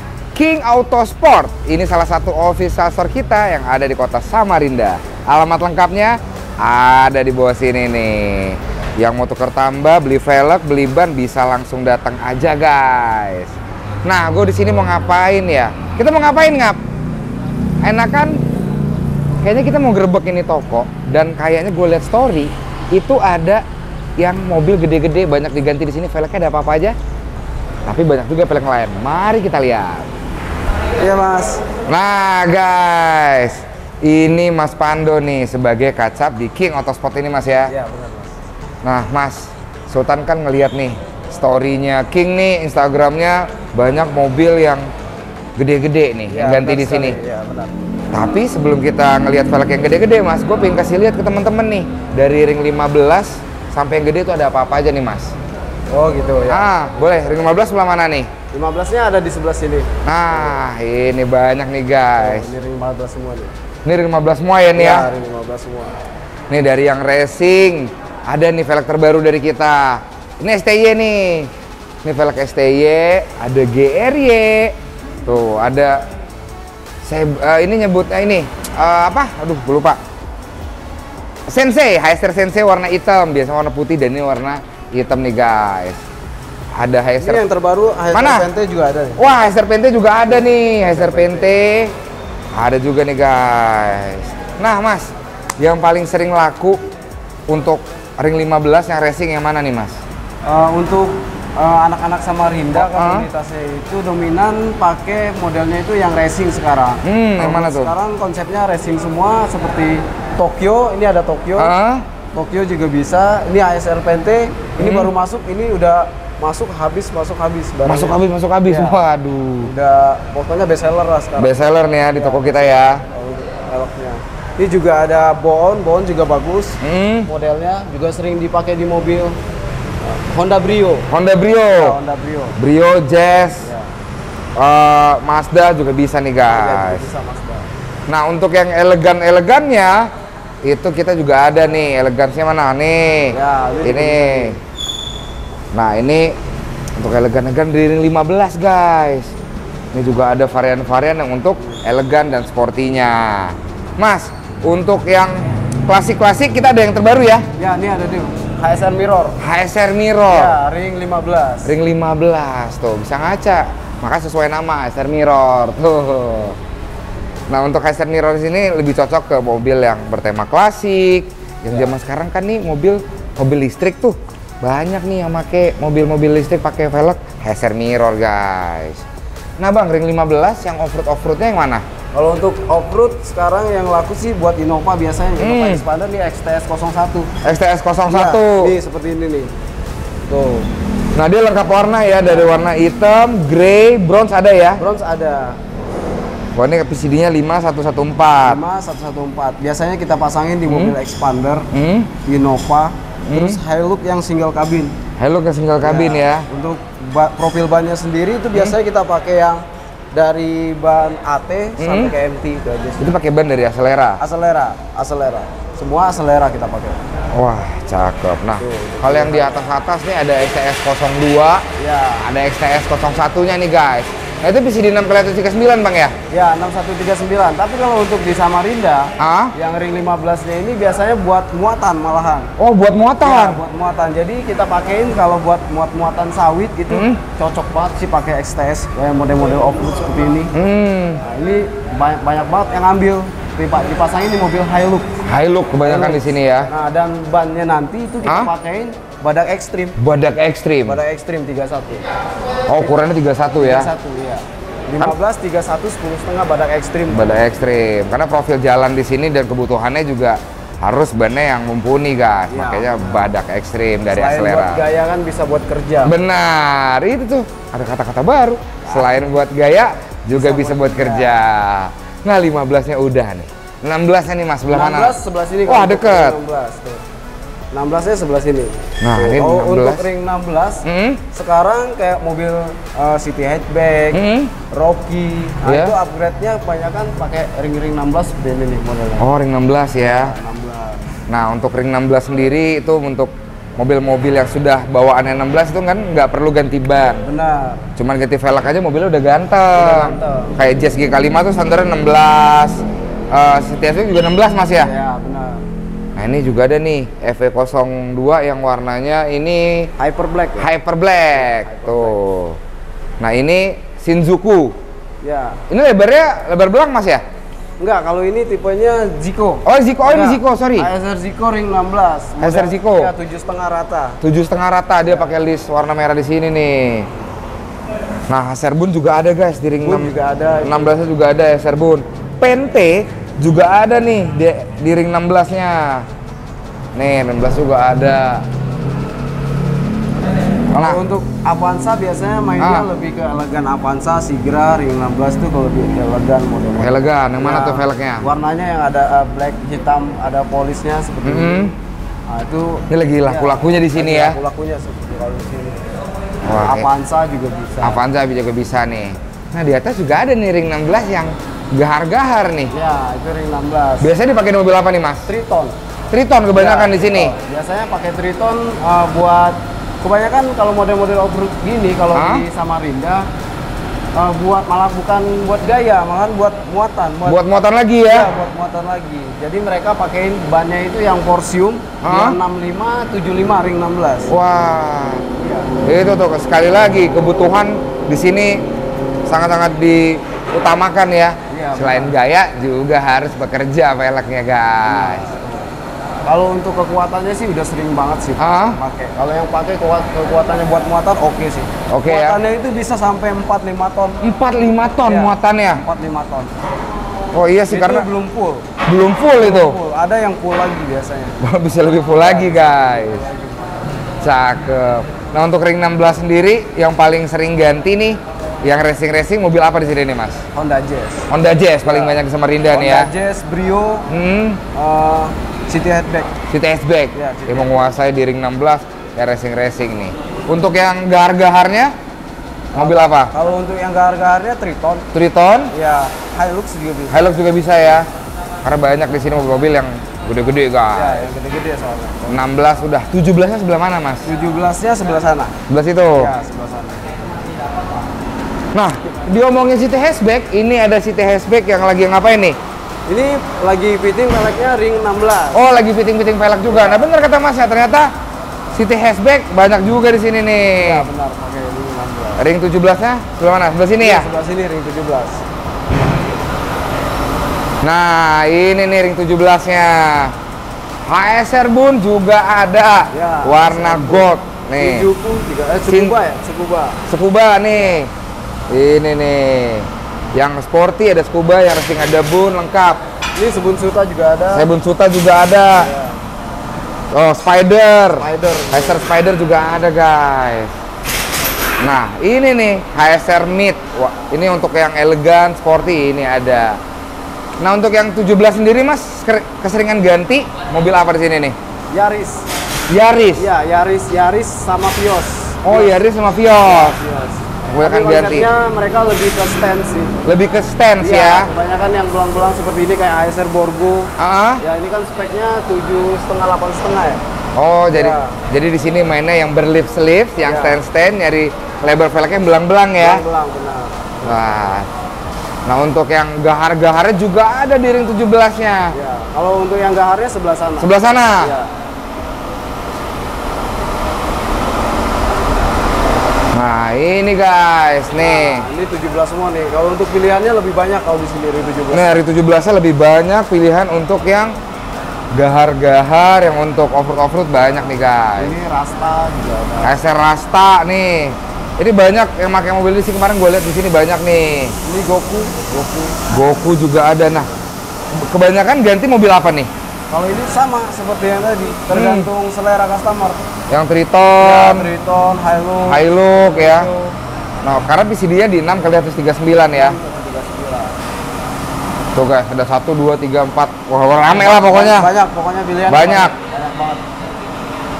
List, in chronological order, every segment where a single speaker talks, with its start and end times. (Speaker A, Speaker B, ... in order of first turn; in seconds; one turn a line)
Speaker A: 0.3-13.5
Speaker A: 14.0-16.8
Speaker A: 17.8-18.4
Speaker A: 19.4-23.6
Speaker A: 24.2-26.9
Speaker A: 27.9-30.1
Speaker B: 31.0-31.6
Speaker A: 31.9-37.7
Speaker B: 37.7-38.4
Speaker A: 38.8-44.9
Speaker A: 45.5-47.2
Speaker B: 46.3-47.7
Speaker A: 48.1-55.3
Speaker B: 55.9-57.3
Speaker A: 56.5-58.3
Speaker B: 58.5-60.6
Speaker A: 60.0-62.5
Speaker B: 62.2-63.5
Speaker A: 63.8-65.0
Speaker B: 64.7-65.9
Speaker A: 66.5-71.5
Speaker A: 72.0-74.7
Speaker A: 75.2-76.0
Speaker A: 77.0-80.0
Speaker A: 81.5-86.0
Speaker A: 86.8-87.4
Speaker B: 87.2-89.2
Speaker A: 88.1-88.5
Speaker A: 89.2-91.9
Speaker B: 90.3-91.6
Speaker A: 92.5-96.8
Speaker A: 97.5-100.0
Speaker B: 100.4-111.7
Speaker A: 102.8-103.2
Speaker A: 107.0-107.9
Speaker A: 111.6-112.0
Speaker B: 112.3-119.0
Speaker A: 114.8-115.1
Speaker A: 117.8-119.7
Speaker B: 119.6-121.6
Speaker A: 121.4-123.0
Speaker B: 122.1-129.4
Speaker A: 126.8-127.3
Speaker B: 130.0-131.1
Speaker A: 131.1-131.9
Speaker B: 131.7-132.6
Speaker A: 132.6-133.6
Speaker B: 133.6-133.9
Speaker A: 134.6-137.0
Speaker B: 136.5-137.7
Speaker A: 138.1-140.1
Speaker A: 140.6-144.6
Speaker B: 143.3-144.5
Speaker A: 145.7-146.3
Speaker A: 147.0-149.3
Speaker A: 149.9-155.3
Speaker A: 155.9-157.4
Speaker B: 157.6-159.4
Speaker A: 159.4-160.6
Speaker B: 160.3-161.7
Speaker A: 161.6-166.6
Speaker A: 167.5-179.0
Speaker A: 179.6-181.8
Speaker B: 182.1-187.3
Speaker A: 185.4-185.8
Speaker A: 187.4-188.7
Speaker B: 188.1-189.5
Speaker B: 190.3-190.7
Speaker A: 191.1-194.8
Speaker B: 192.2-192.5
Speaker B: 194.8-195.6
Speaker A: 196.6-198.6
Speaker B: 198.4-201.7
Speaker A: 200.7-200.9
Speaker A: 201.7-202.1
Speaker B: 202.2-204.9
Speaker A: 203.3-203.6
Speaker A: 205.2-206.4
Speaker B: 205.8-209.6
Speaker B: 210.1-213.1
Speaker A: 211.8-212.1
Speaker A: 213.0-214.2
Speaker B: 214.2-217.0
Speaker A: 217.3-221.6
Speaker B: 218.6-219.6
Speaker B: 221.8-222.2
Speaker A: 222.2-226.1
Speaker B: 226.3-232.5
Speaker A: 229.2-229.5
Speaker A: 232.6-233.6
Speaker B: 233.2-240.5
Speaker A: 236.9-237.2
Speaker A: 240.5-241.2
Speaker B: 241.2-245.1
Speaker A: 245.3-246.7
Speaker B: 245.8-250.0
Speaker A: 248.2-248.5
Speaker A: 250.0-251.0
Speaker B: 250.8-252.1
Speaker A: 252.7-253.9
Speaker B: 252.8-257.6
Speaker A: 257.1-264.8
Speaker B: 262.5-263.3
Speaker B: 264.1-266.1
Speaker A: 266.0-275.1
Speaker B: 268.9-269.3
Speaker B: 270.3-271.4
Speaker B: 274.7-277.0
Speaker A: 275.7-276.4
Speaker B: 277.7-289.3
Speaker A: 279.0-280.0
Speaker A: 280.9-281.2
Speaker A: 284.1-284.5
Speaker A: 285.6-285.9
Speaker A: 289.2-290.3
Speaker B: 290.0-291.1
Speaker A: 291.3-297.2
Speaker B: 297.2-297.8
Speaker A: 298.0-302.8
Speaker B: 299.8-300.6
Speaker A: 303.3-304.9
Speaker B: 304.8-305.6
Speaker A: 306.1-309.9
Speaker B: 310.0-310.7
Speaker A: 310.6-312.6
Speaker B: 311.3-312.2
Speaker A: 313.2-314.7
Speaker B: 315.2-315.6
Speaker A: 315.7-317.2
Speaker B: 317.8-324.2
Speaker A: 319.6-320.9
Speaker A: 322.4-323.1
Speaker A: 324.2-327.1
Speaker B: 325.0-325.3
Speaker A: 328.3-330.1
Speaker B: 329.8-331.0
Speaker A: 330.6-336.0
Speaker A: 336.9-338.4
Speaker A: 340.7-341.0
Speaker B: 340.8-351.7
Speaker A: 342.6-342.9
Speaker A: 346.8-348.2
Speaker A: 351.2-351.7
Speaker B: 352.3-355.8
Speaker A: 352.9-354.4
Speaker A: 356.4-356.9
Speaker B: 356.5-358.0
Speaker A: 357.8-362.7
Speaker B: 362.7-364.1
Speaker A: 364.0-365.3
Speaker B: 365.2-365.7
Speaker A: 366.1-367.3
Speaker B: 366.5-373.2
Speaker A: 372.1-372.4
Speaker B: 374.1-377.4
Speaker A: 377.2-378.3
Speaker B: 378.0-384.3
Speaker A: 382.0-382.4
Speaker A: 384.3-385.2
Speaker B: 385.4-385.7
Speaker A: 385.8-388.6
Speaker A: 389.3-395.3
Speaker B: 391.5-392.1
Speaker B: 394.8-395.7
Speaker B: 396.2-404.2
Speaker A: 398.4-398.8
Speaker A: 401.9-402.4
Speaker A: 404.2-405.8
Speaker B: 405.0-406.6
Speaker A: 407.3-408.1
Speaker B: 407.7-408.7
Speaker A: 408.9-409.8
Speaker B: 409.4-411.4
Speaker A: 411.4-413.2
Speaker B: 412.1-413.9
Speaker A: 414.2-420.4
Speaker B: 420.5-421.3
Speaker A: 421.3-423.1
Speaker B: 421.8-422.2
Speaker B: 422.7-424.1
Speaker A: 424.1-424.6
Speaker B: 424.7-426.3
Speaker A: 426.5-431.9
Speaker B: 427.1-427.9
Speaker B: 432.7-435.1
Speaker A: 432.8-433.3
Speaker A: 435.1-435.7
Speaker B: 435.7-437.3
Speaker A: 437.1-438.1
Speaker A: 438.6-441.2
Speaker B: 440.9-442.4
Speaker A: 442.3-444.3
Speaker B: 444.2-445.5
Speaker A: 445.7-446.3
Speaker B: 446.1-447.2
Speaker A: 448.7-452.6
Speaker B: 453.1-455.6
Speaker A: 455.5-458.1
Speaker B: 456.7-457.1
Speaker A: 458.7-461.1
Speaker B: 460.8-462.4
Speaker A: 462.4-464.2
Speaker B: 464.0-465.4
Speaker A: 467.8-470.3
Speaker A: 471.1-475.1
Speaker B: 473.1-477.0
Speaker A: 475.9-476.1
Speaker A: 477.1-478.1
Speaker A: 478.7-483.0
Speaker B: 483.4-484.7
Speaker A: 484.5-485.9
Speaker B: 485.7-486.2
Speaker A: 487.1-490.7
Speaker B: 488.1-489.1
Speaker A: 491.8-496.8
Speaker A: 497.6-501.6
Speaker B: 501.9-502.5
Speaker A: 502.9-503.5
Speaker B: 503.4-510.1
Speaker A: 505.6-507.0
Speaker A: 507.7-508.5
Speaker A: 510.2-511.5
Speaker B: 511.0-514.1
Speaker A: 514.2-514.6
Speaker B: 514.6-517.2
Speaker A: 517.5-523.2
Speaker B: 517.9-518.4
Speaker B: 520.4-520.8
Speaker B: 523.0-524.7
Speaker A: 524.2-524.9
Speaker A: 525.6-528.9
Speaker B: 528.9-531.7
Speaker A: 530.8-531.5
Speaker A: 536.5-538.6
Speaker B: 538.1-542.1
Speaker A: 541.9-544.5
Speaker A: 545.3-548.6
Speaker B: 547.6-550.0
Speaker A: 549.8-554.7
Speaker B: 554.8-556.2
Speaker A: 556.3-557.5
Speaker A: 558.1-559.7
Speaker B: 560.1-563.4
Speaker A: 561.9-562.3
Speaker A: 563.7-564.9
Speaker B: 564.4-567.1
Speaker A: 565.9-566.9
Speaker A: 567.6-570.0
Speaker B: 569.7-571.0
Speaker A: 572.1-575.1
Speaker B: 574.3-577.0
Speaker A: 575.9-576.3